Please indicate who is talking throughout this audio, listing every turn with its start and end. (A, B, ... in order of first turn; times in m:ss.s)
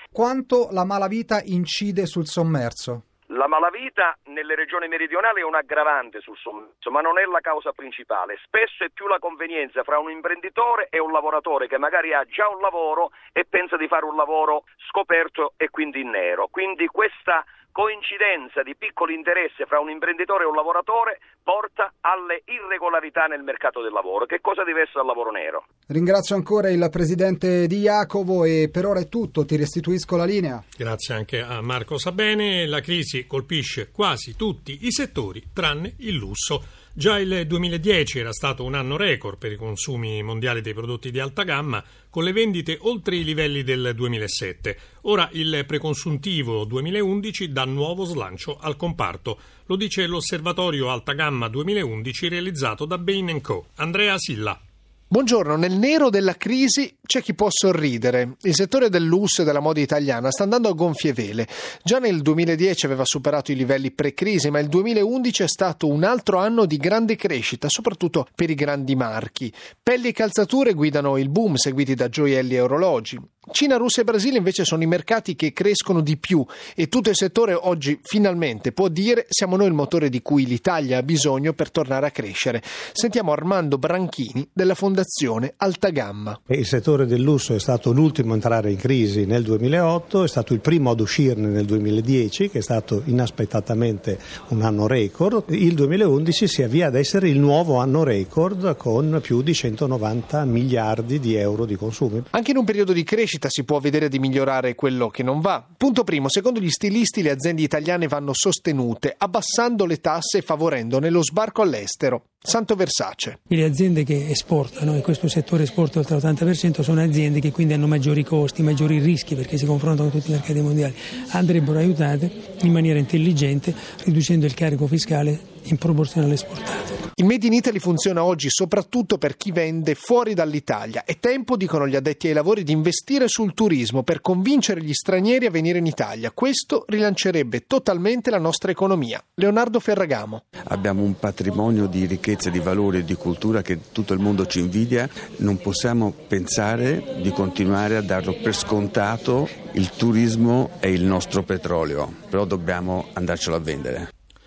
0:00.1-0:03.0 A
0:03.3-0:25.6 B
0:25.9-0:30.6 A
0:30.8-0:54.6 C
0:55.1-1:26.4 D
1:26.5-1:42.2 E
1:42.3-1:53.4 D
1:53.5-2:07.0 F
2:07.2-2:20.4 D
2:20.6-2:34.1 G